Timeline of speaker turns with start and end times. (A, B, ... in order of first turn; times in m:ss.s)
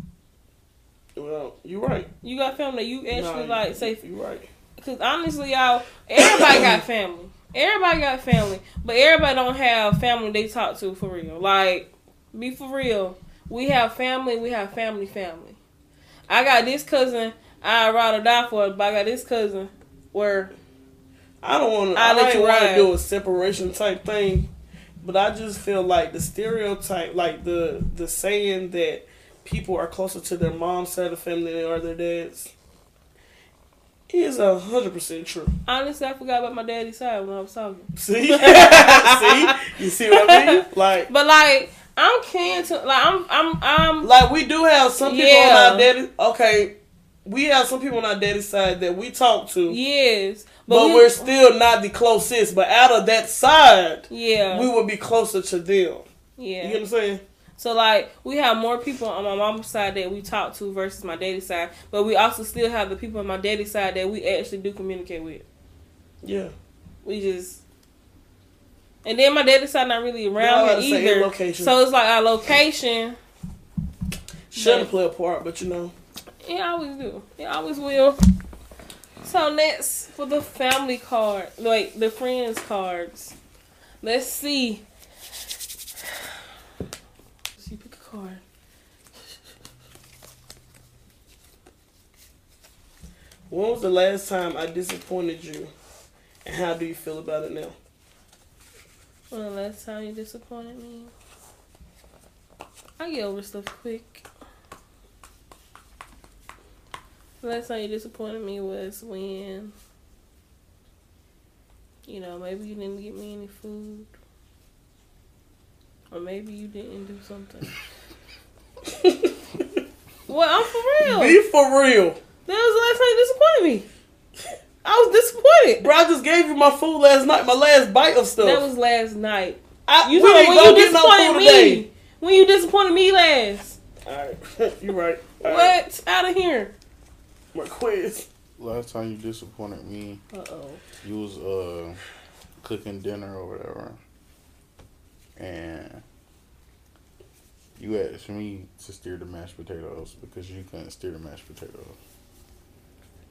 0:01.2-0:02.1 A
0:02.2-0:04.0 B
0:03.1-0:04.5 A
0:04.8-0:15.6 B
0:06.2-0:06.8 A
0:16.3-0:20.5 B
0:21.4-0:24.5 A
0:22.0-0:22.9 B
0:25.0-0:32.5 A
0:34.1-0:35.5 A
0:35.7-0:44.1 B
0:38.0-0:41.1 A
0:44.0-0:46.7 A
0:45.0-0:45.9 B
0:47.2-0:49.8 A
0:49.7-0:51.3 B
0:50.7-0:56.1 A
0:54.1-0:54.7 B
0:56.4-0:56.8 B
0:56.6-0:57.2 A
0:57.6-1:05.4 B
1:06.2-1:06.5 A
1:07.0-1:07.6 B
1:09.0-1:13.2 B
1:10.4-1:11.8 A
1:14.5-1:15.9 A
1:14.5-1:14.9 B
1:16.4-1:18.2 B
1:19.2-1:23.3 B
1:24.0-1:24.8 B
1:27.6-1:28.4 B
1:33.5-1:35.7 A
1:36.4-1:37.8 A
1:39.3-1:41.1 B
1:43.0-1:44.3 B
1:47.4-1:49.7 B
1:52.1-1:54.1 B
1:56.1-1:57.7 B
1:58.9-1:59.8 A
2:00.3-2:01.4 B
2:01.0-2:02.2 A
2:02.5-2:03.9 B
2:04.8-2:05.9 B
2:05.8-2:08.6 A
2:08.4-2:13.8 B
2:09.9-2:11.8 A
2:14.1-2:15.8 A
2:15.4-2:16.7 B
2:17.5-2:18.3 A
2:18.6-2:20.2 C
2:20.3-2:20.8 B
2:21.0-2:22.0 C
2:22.6-2:24.0 C
2:25.4-2:26.0 C
2:27.8-2:32.0 C